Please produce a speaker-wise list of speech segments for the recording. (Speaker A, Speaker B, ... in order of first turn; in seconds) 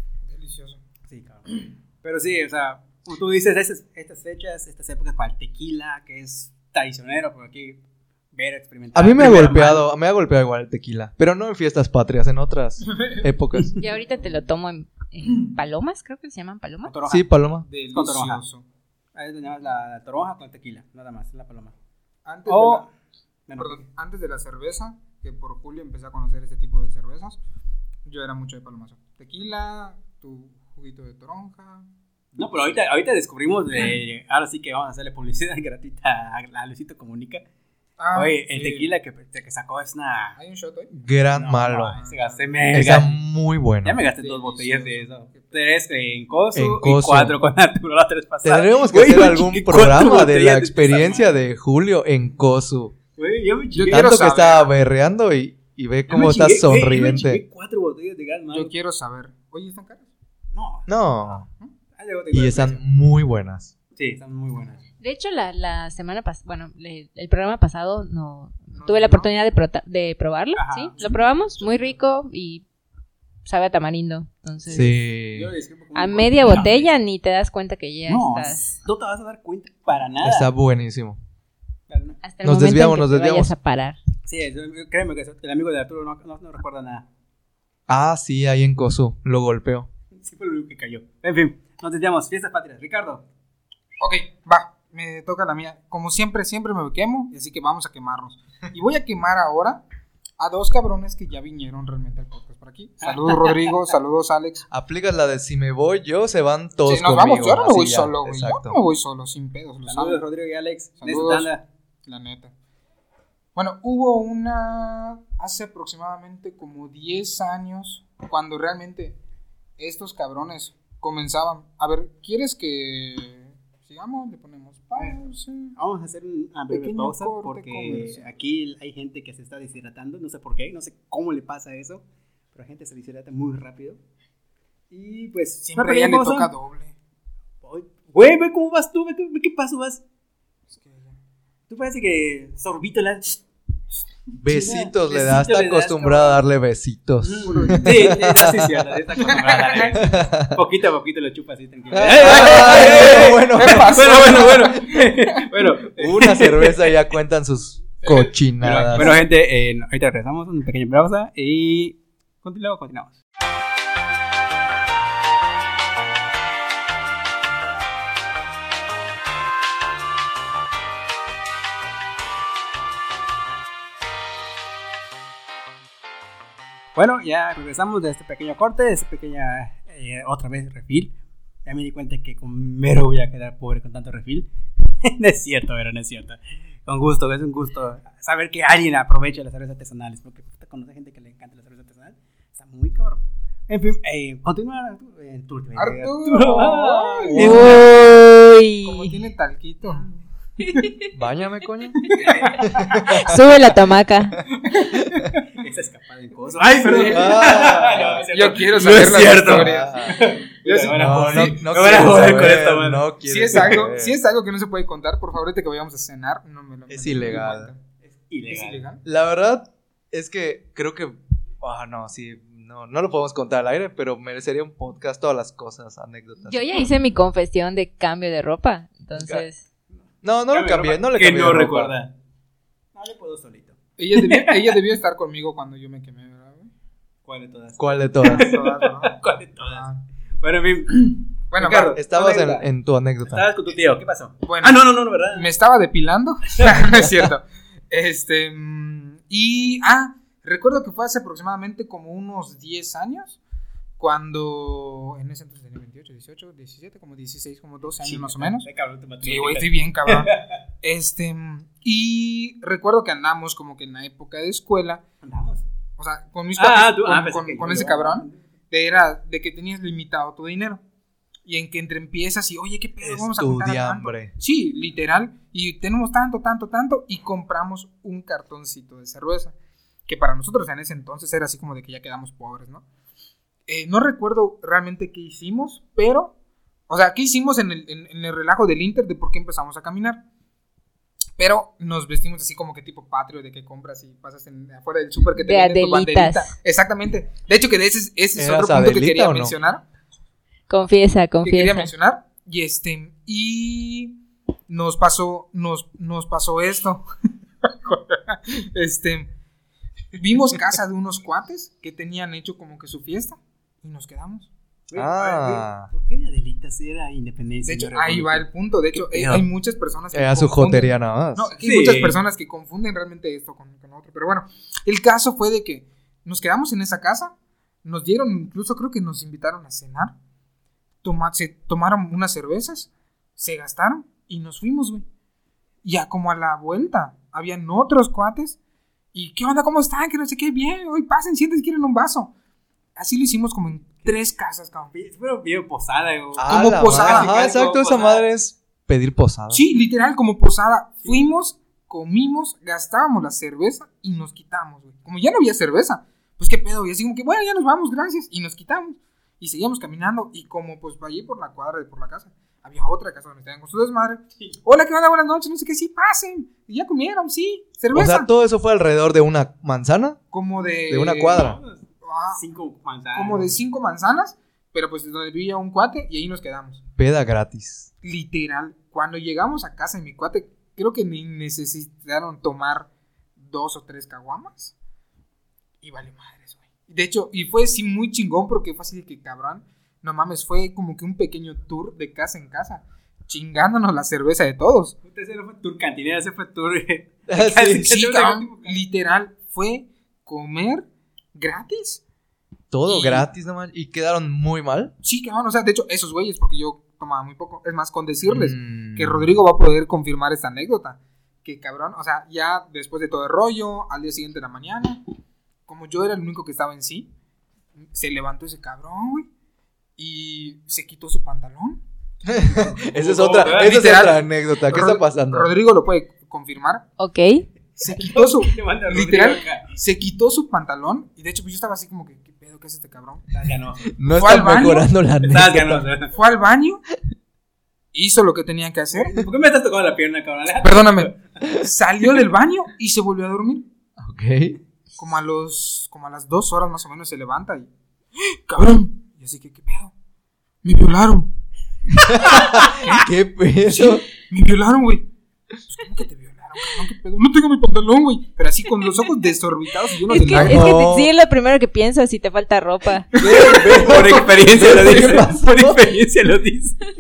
Speaker A: 0.3-0.8, 17.6-18.6, 22.3-22.9, 23.6-27.4, 28.1-31.9, 38.0-38.9, 40.4-40.9, 41.9-43.0, 44.2-45.5, 53.8-54.7, 58.5-60.1, 68.7-69.3, 94.0-99.8, 100.4-104.7, 106.9-110.2, 111.0-111.5, 112.1-112.5, 113.5-119.2, 119.8-125.7, 126.7-128.2, 135.7-136.9, 140.7-141.2, 147.4-148.2, 149.2-150.0, 152.2-155.4, 158.8-159.2, 195.8-197.9, 198.8-200.1, 202.0-203.2, 204.7-205.1, 206.7-212.2, 213.2-217.8, 218.5-219.0, 234.0-236.7, 238.2-240.0, 241.5-242.0, 244.4-253.4, 254.0-258.7, 259.2-260.3, 260.8-265.0, 266.0-270.8, 271.4-279.6, 280.1-282.8, 283.7-286.3, 286.9-290.2, 291.4-299.8, 301.4-304.1, 304.7-307.1, 307.6-309.3, 310.1-314.5, 317.6-330.1, 331.0-335.1, 335.8-338.6, 339.1-342.3, 343.0-344.9, 346.5-347.5, 349.5-368.3, 370.3-371.5, 372.0-372.4, 373.1-376.8, 378.0-384.7, 385.8-394.9, 397.7-402.0, 402.9-403.3, 405.0-415.0, 415.7-417.1, 417.8-419.3, 420.0-421.8, 423.3-426.9, 427.8-433.2, 434.1-434.9, 436.1-436.8, 437.9-439.2, 440.6-443.7, 445.0-449.9, 450.6-451.3, 452.3-453.1, 453.7-455.1, 455.6-460.7, 463.1-465.2
Speaker B: 1.1-7.8, 8.3-9.9, 16.9-17.3, 17.9-18.4, 19.1-21.7, 22.5-22.9, 23.5-23.8, 32.4-37.4, 38.1-40.4, 41.3-43.2, 43.8-51.3, 53.2-54.1, 56.1-58.7, 60.5-60.9, 62.0-62.8, 64.0-64.8, 70.6-71.9, 74.7-76.9, 78.1-80.5, 81.9-82.2, 84.3-87.1, 90.2-93.2, 103.0-103.8, 109.9-111.6, 125.0-125.2, 125.8-134.0, 134.9-136.5, 137.6-140.0, 141.7-143.4, 144.3-146.4, 147.2-157.0, 158.6-163.2, 176.9-181.1, 181.7-184.5, 185.0-197.8, 199.8-200.1, 202.2-202.7, 205.5-213.8, 218.0-218.9, 229.9-232.1, 232.9-234.8, 237.3-239.9, 240.4-242.7, 243.3-245.5, 258.0-260.6, 265.2-265.6, 266.6-268.4, 314.9-319.5, 321.6-322.2, 344.9-348.2, 371.3-371.8, 372.3-373.6, 395.1-398.8, 422.9-424.0, 427.8-429.7, 433.3-433.9, 435.2-436.1, 438.9-441.2, 463.2-466.8
Speaker C: 8.9-13.8, 17.1-17.7, 40.9-42.0, 42.7-44.0, 46.5-47.4, 48.4-53.0, 53.9-57.4, 60.9-61.5, 62.3-63.7, 74.7-75.5, 80.2-81.2, 82.4-83.5, 87.9-89.9, 104.7-108.8, 144.4-148.8, 149.8-150.6, 151.9-154.0, 156.0-159.2, 197.3-198.1, 201.1-203.4, 204.9-205.3, 207.1-208.2, 209.1-210.2, 210.9-214.2, 216.9-217.7, 219.1-226.6, 229.2-229.4, 230.2-231.9, 237.8-238.5, 241.9-243.5, 246.8-247.3, 273.0-274.3, 298.4-299.6, 314.9-315.9, 320.1-321.5, 346.4-349.6, 367.9-370.2, 370.9-371.6, 377.0-377.9, 397.3-397.9, 402.7-404.9, 408.2-409.3, 422.2-425.5, 433.9-435.9, 444.0-444.6, 451.9-454.0, 460.3-461.1, 463.1-465.8
Speaker D: 13.8-16.9, 65.0-72.6, 73.5-74.9, 76.0-78.8, 82.2-84.0, 197.3-199.2, 200.6-201.0, 203.1-204.4, 226.4-229.6, 295.4-296.5, 300.7-301.9, 427.0-427.4, 460.1-463.1